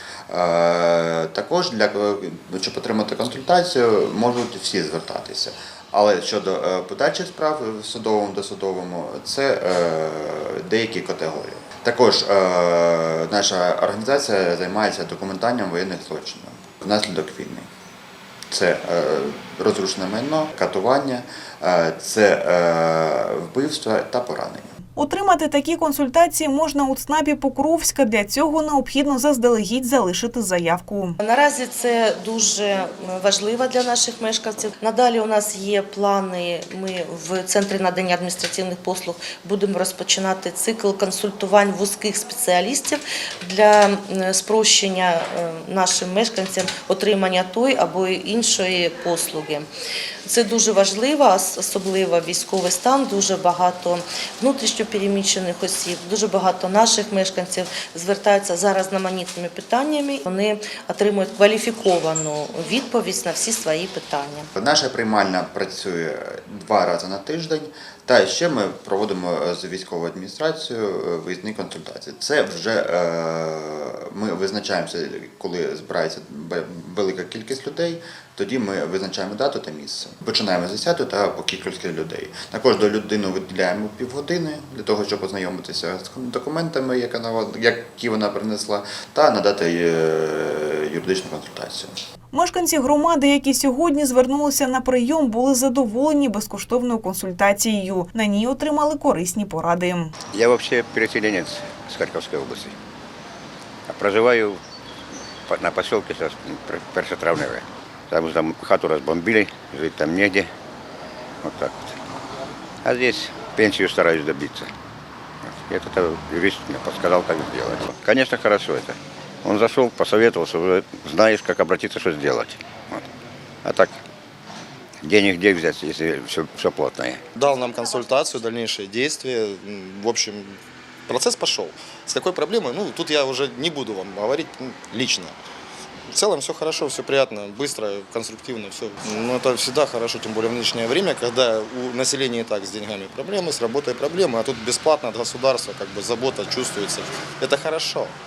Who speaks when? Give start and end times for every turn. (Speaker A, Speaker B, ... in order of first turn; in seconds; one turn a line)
Speaker A: 0.3-17.7
Speaker A: 18.5-24.7
Speaker B: 25.0-31.2
Speaker C: 31.2-49.7
Speaker C: 50.2-64.5
Speaker A: 64.5-92.0
Speaker B: 92.3-100.1
Speaker D: 100.3-102.8
Speaker D: 103.9-104.6
Speaker D: 105.5-110.5
Speaker D: 111.4-112.0
Speaker D: 112.8-114.7
Speaker D: 115.4-123.0
Speaker D: 123.6-124.0
Speaker D: 125.0-127.2
Speaker E: 127.3-135.4
Speaker E: 136.1-148.1